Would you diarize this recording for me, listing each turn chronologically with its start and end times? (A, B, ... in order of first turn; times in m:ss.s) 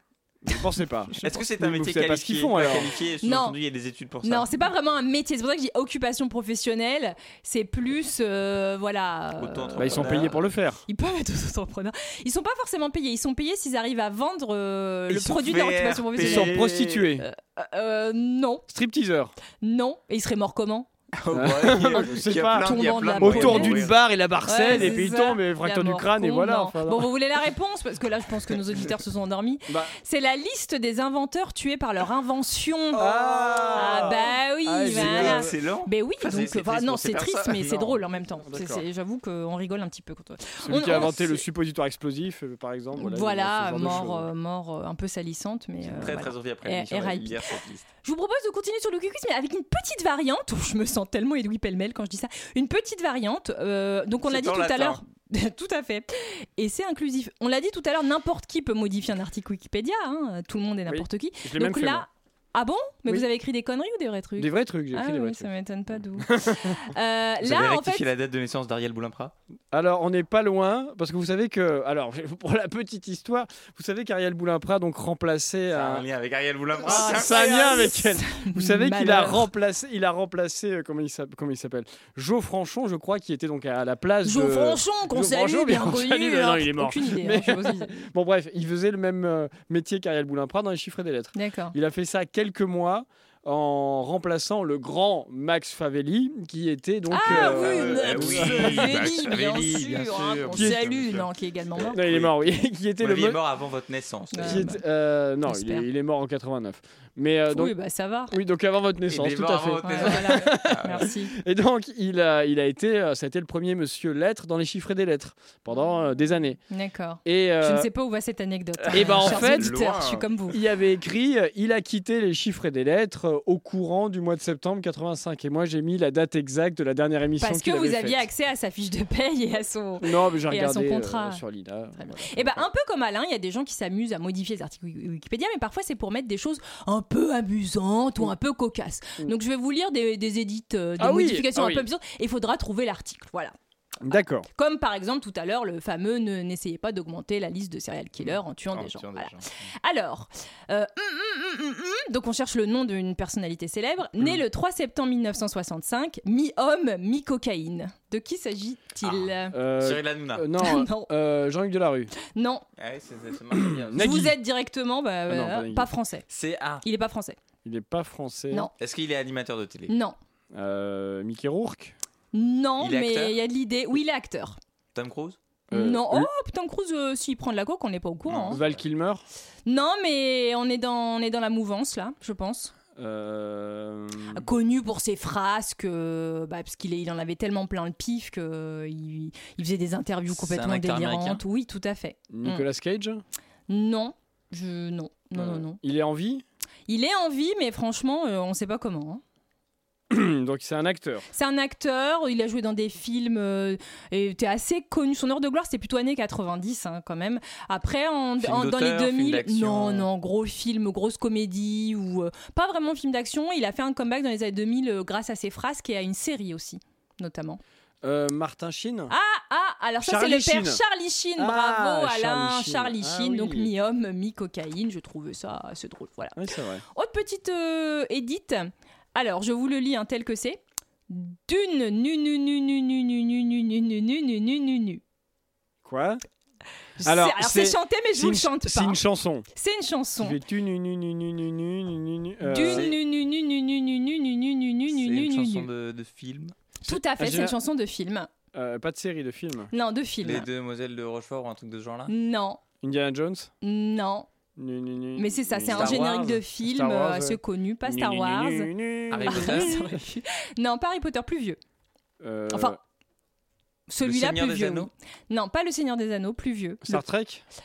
0:00.4-0:02.9 A
0:01.1-0:01.4 B
0:01.2-0:04.7 C
0:03.2-0:03.6 B
0:04.2-0:10.3 B
0:09.3-0:10.4 C
0:09.8-0:10.8 A
0:10.9-0:16.7 B
0:15.1-0:17.1 C
0:16.2-0:17.2 A
0:17.2-0:18.6 B
0:18.7-0:19.3 A
0:19.6-0:20.9 B
0:21.1-0:24.0 C
0:21.3-0:27.0 A
0:22.6-0:23.9 B
0:24.4-0:33.1 B
0:24.7-0:25.0 C
0:29.7-0:29.9 A
0:32.9-0:34.3 C
0:33.0-0:35.5 A
0:33.7-0:41.4 B
0:34.8-0:38.0 C
0:38.4-0:38.8 A
0:40.6-0:44.3 A
0:43.0-1:08.0 B
0:45.8-0:47.8 C
0:54.2-0:55.0 C
1:00.9-1:02.0 A
1:04.4-1:05.5 A
1:06.2-1:06.8 A
1:07.4-1:09.3 C
1:09.7-1:16.0 A
1:15.7-1:17.8 C
1:16.8-1:19.5 B
1:16.8-1:39.2 A
1:24.2-1:27.9 B
1:31.3-1:31.7 B
1:37.1-1:42.0 B
1:37.2-1:42.4 C
1:40.5-1:40.8 A
1:41.9-1:43.4 A
1:43.0-1:44.7 C
1:44.3-1:44.8 B
1:44.4-1:47.7 A
1:45.4-1:45.8 B
1:47.5-1:48.3 B
1:48.3-1:56.6 A
1:49.1-1:51.1 C
1:49.8-1:51.3 B
1:56.7-2:00.6 B
1:57.2-1:57.9 A
1:58.9-1:59.7 A
1:58.9-2:00.3 C
2:00.5-2:08.2 A
2:07.4-2:11.4 B
2:10.0-2:12.6 A
2:12.0-2:23.5 B
2:21.0-2:21.9 A
2:24.0-2:24.5 A
2:24.1-2:39.5 B
2:28.7-2:29.6 C
2:39.0-2:40.4 C
2:39.5-2:42.1 A
2:40.6-2:41.1 B
2:42.2-2:42.6 B
2:42.8-2:44.3 C
2:43.8-2:44.4 A
2:44.0-2:46.3 B
2:45.3-2:45.9 A
2:46.3-2:46.8 C
2:46.8-2:47.4 B
2:47.6-2:48.7 A
2:48.8-2:49.9 C
2:49.9-2:50.2 B
2:50.5-2:51.9 A
2:52.3-2:54.6 B
2:52.8-2:53.4 C
2:54.9-2:55.4 C
2:55.7-2:56.3 A
2:55.7-2:58.6 B
2:58.3-2:58.8 C
2:58.5-2:59.2 A
2:59.6-3:02.7 B
3:03.0-3:04.4 A
3:04.3-3:12.6 B
3:10.3-3:11.4 C
3:12.3-3:13.2 A
3:13.7-3:15.8 B
3:15.3-3:16.4 A
3:16.9-3:19.2 B
3:20.1-3:21.2 A
3:21.3-3:37.6 B
3:28.4-3:30.1 C
3:38.0-3:39.1 A
3:39.1-3:55.0 B
3:40.0-3:40.8 A
3:41.4-3:43.7 A
3:46.4-3:46.8 A
3:55.8-3:56.2 A
3:57.0-3:59.0 B
3:57.0-3:59.4 A
3:59.5-4:00.4 B
4:00.2-4:02.9 A
4:02.5-4:05.7 B
4:02.5-4:03.0 C
4:04.9-4:06.6 C
4:06.8-4:07.6 A
4:06.8-4:08.3 B
4:08.5-4:09.7 A
4:09.7-4:10.5 B
4:10.2-4:12.1 C
4:12.1-4:12.6 B
4:12.8-4:13.5 A
4:13.6-4:14.3 B
4:14.6-4:19.9 A
4:15.2-4:18.7 B
4:15.7-4:16.4 C
4:19.1-4:19.9 C
4:19.2-4:21.6 B
4:22.2-4:22.8 A
4:22.5-4:22.8 B
4:23.9-4:27.0 B
4:24.0-4:24.9 C
4:26.8-4:27.4 A